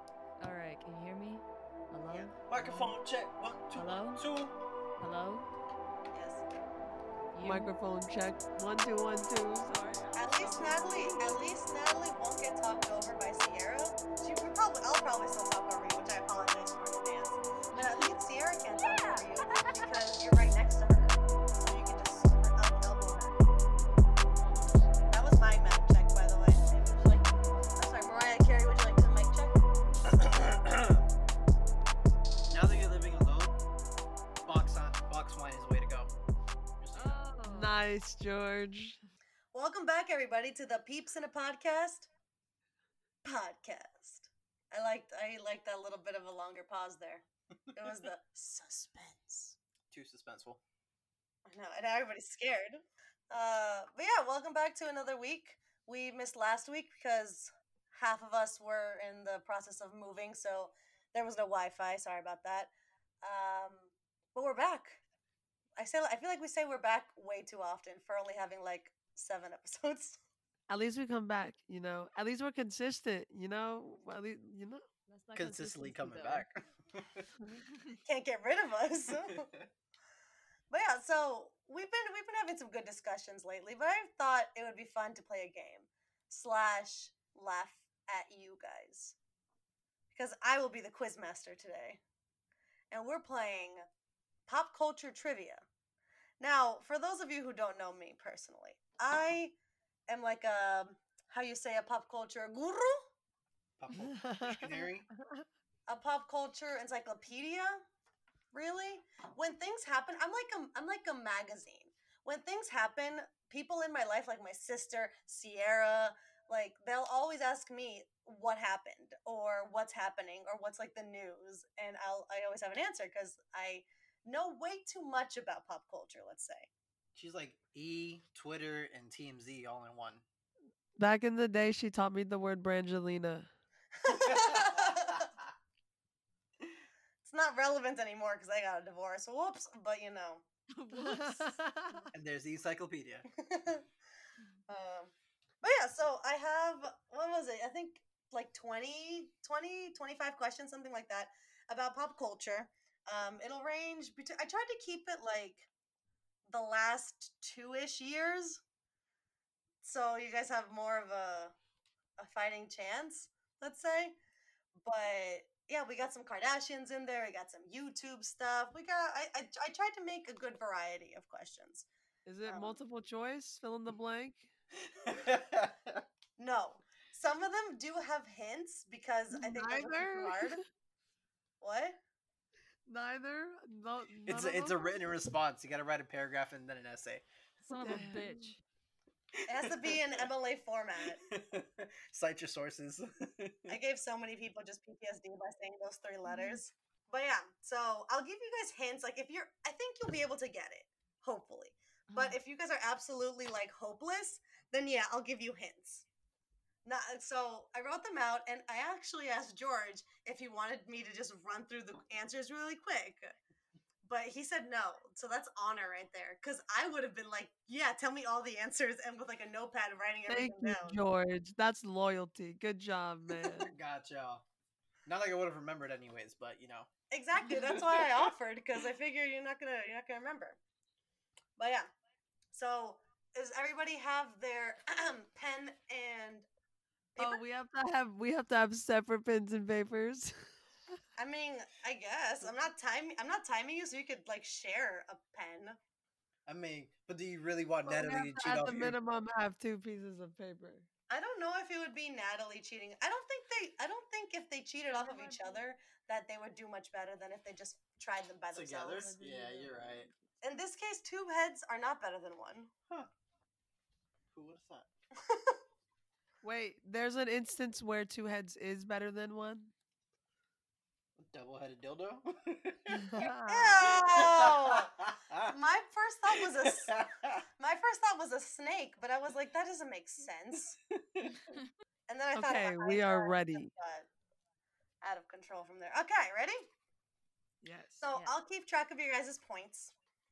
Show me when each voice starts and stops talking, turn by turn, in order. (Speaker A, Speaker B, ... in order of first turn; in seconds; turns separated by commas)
Speaker A: 0.4-2.9, Speaker B: 2.5-4.5, Speaker A: 3.7-4.2, Speaker A: 5.0-5.5, Speaker C: 6.1-6.4, Speaker A: 7.3-7.7, Speaker D: 7.4-11.4, Speaker C: 10.1-23.4, Speaker A: 17.7-18.1, Speaker A: 18.9-19.8, Speaker C: 25.1-29.6, Speaker B: 30.1-31.0, Speaker B: 32.5-33.6, Speaker B: 34.4-36.1, Speaker B: 36.8-37.3, Speaker A: 36.9-37.8, Speaker D: 37.4-39.0, Speaker C: 39.5-42.1, Speaker C: 43.2-49.6, Speaker B: 49.9-50.6, Speaker C: 51.5-62.7, Speaker C: 63.2-65.0, Speaker C: 65.8-70.2, Speaker D: 70.7-74.8, Speaker A: 75.1-76.5, Speaker B: 75.3-77.3, Speaker C: 78.0-79.5, Speaker B: 79.2-79.6, Speaker C: 80.7-89.2, Speaker C: 90.1-92.0, Speaker C: 92.9-93.8, Speaker C: 94.5-95.6, Speaker C: 96.4-99.5, Speaker C: 100.1-103.0, Speaker B: 103.8-105.1, Speaker D: 104.1-105.4, Speaker C: 105.9-107.8, Speaker C: 108.5-126.7, Speaker B: 127.1-130.2, Speaker D: 131.0-133.5, Speaker C: 134.0-135.3, Speaker B: 134.2-135.3, Speaker C: 137.2-140.4, Speaker A: 140.7-142.0, Speaker D: 140.9-142.0, Speaker B: 142.1-143.2, Speaker C: 143.3-143.8, Speaker C: 144.7-155.7, Speaker C: 156.5-158.6, Speaker C: 159.8-161.5, Speaker C: 162.2-164.1, Speaker C: 164.8-171.9, Speaker D: 172.2-174.5, Speaker C: 172.5-172.8, Speaker B: 175.0-176.0, Speaker C: 176.4-180.6, Speaker D: 179.3-180.6, Speaker C: 181.6-182.0, Speaker D: 182.9-185.0, Speaker B: 184.3-187.2, Speaker A: 187.6-188.6, Speaker D: 187.8-188.5, Speaker B: 189.4-190.3, Speaker C: 189.5-191.2, Speaker B: 191.2-193.8, Speaker C: 193.7-206.0, Speaker A: 196.2-196.6, Speaker A: 202.1-202.3, Speaker C: 206.8-213.3, Speaker C: 214.0-221.0, Speaker D: 220.3-223.7, Speaker B: 223.6-224.4, Speaker B: 225.1-226.9, Speaker C: 227.1-230.6, Speaker B: 227.4-228.3, Speaker C: 231.6-231.9, Speaker C: 232.5-236.4, Speaker C: 237.1-237.4, Speaker D: 237.2-240.5, Speaker C: 241.2-245.8, Speaker B: 246.5-248.9, Speaker D: 247.9-250.9, Speaker C: 251.1-259.1, Speaker A: 254.9-255.6, Speaker B: 258.5-260.1, Speaker A: 259.0-260.1, Speaker C: 260.4-262.7, Speaker B: 264.3-264.9, Speaker C: 265.2-265.6, Speaker D: 266.4-269.7, Speaker B: 271.1-273.2, Speaker D: 273.0-273.9, Speaker C: 273.2-274.9, Speaker B: 273.8-275.6, Speaker C: 275.5-277.0, Speaker B: 276.4-277.4, Speaker C: 277.6-280.8, Speaker B: 280.9-281.5, Speaker C: 282.1-284.1, Speaker D: 282.3-283.7, Speaker C: 285.0-286.6, Speaker D: 287.6-288.1, Speaker C: 288.0-289.9